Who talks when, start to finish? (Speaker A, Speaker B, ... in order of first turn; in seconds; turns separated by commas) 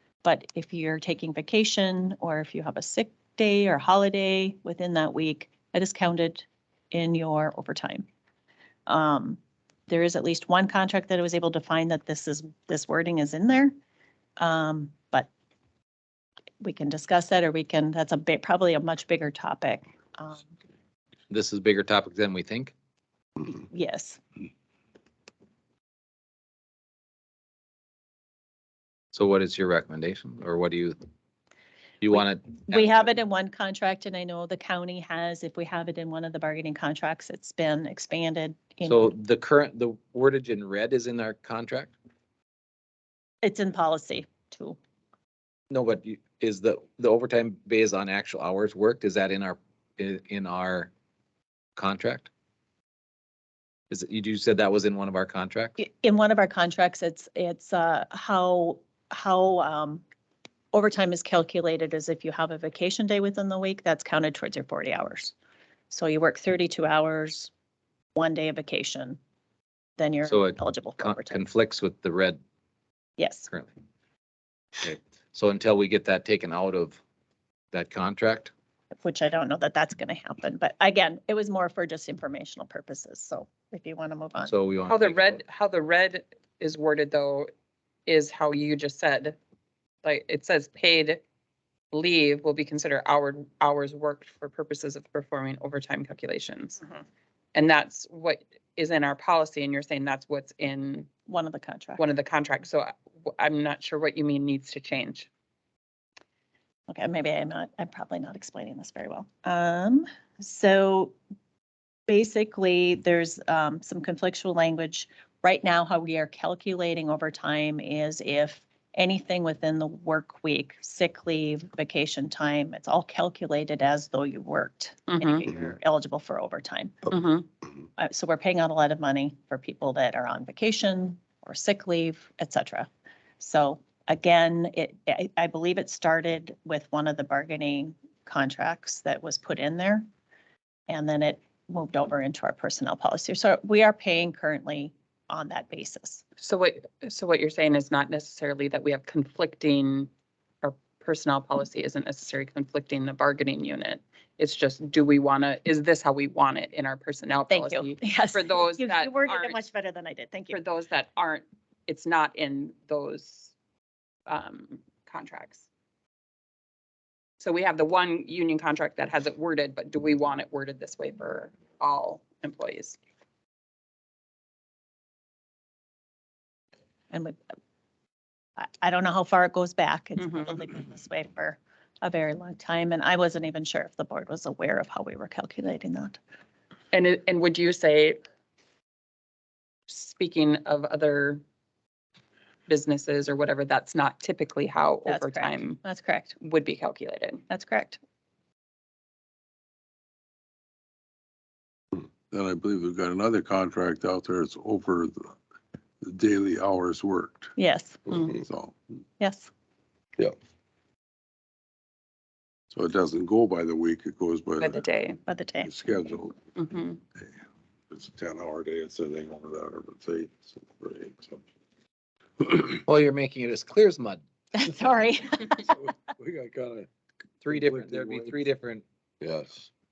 Speaker A: 0.2-8.1, Speaker A: 8.9-13.7, Speaker A: 14.4-15.3, Speaker A: 16.6-20.5, Speaker B: 21.3-22.7, Speaker A: 23.7-24.2, Speaker B: 29.1-31.0, Speaker B: 32.0-33.1, Speaker A: 32.1-39.1, Speaker B: 38.8-42.0, Speaker A: 43.4-44.8, Speaker B: 45.7-50.9, Speaker B: 51.8-52.3, Speaker B: 53.9-55.8, Speaker A: 55.8-60.0, Speaker A: 60.7-65.3, Speaker A: 65.9-67.5, Speaker A: 68.1-69.2, Speaker A: 70.0-71.4, Speaker B: 70.3-72.4, Speaker A: 73.2-73.5, Speaker B: 74.8-77.0, Speaker B: 77.7-78.5, Speaker A: 79.0-84.5, Speaker B: 84.5-85.4, Speaker C: 84.9-87.5, Speaker C: 88.1-89.3, Speaker C: 90.0-91.2, Speaker C: 91.9-96.8, Speaker C: 97.5-101.1, Speaker A: 101.3-102.0, Speaker C: 102.0-105.3, Speaker A: 106.9-111.1, Speaker A: 112.1-127.1, Speaker C: 125.1-125.5, Speaker C: 127.1-127.5, Speaker A: 128.0-140.1, Speaker A: 140.9-146.2, Speaker C: 146.4-150.1, Speaker C: 150.6-159.6, Speaker A: 157.5-160.6, Speaker C: 160.5-163.5, Speaker C: 164.3-165.7, Speaker C: 167.4-173.0, Speaker A: 177.1-177.4, Speaker A: 178.6-186.2, Speaker C: 180.2-180.6, Speaker C: 186.9-188.2, Speaker C: 189.9-191.4, Speaker C: 192.7-195.8, Speaker A: 195.1-196.3, Speaker C: 196.4-197.4, Speaker A: 197.5-198.0, Speaker D: 202.3-205.3, Speaker D: 206.0-207.5, Speaker A: 207.6-208.2, Speaker D: 208.1-208.8, Speaker A: 209.2-209.5, Speaker D: 212.7-214.8, Speaker C: 214.6-215.2, Speaker A: 215.3-215.7, Speaker D: 215.6-216.4, Speaker C: 216.6-217.0, Speaker D: 217.9-221.4, Speaker D: 222.4-222.8, Speaker B: 222.8-224.2, Speaker A: 224.5-225.7, Speaker D: 225.7-226.9, Speaker D: 227.4-228.5, Speaker B: 227.4-228.8, Speaker D: 229.2-229.7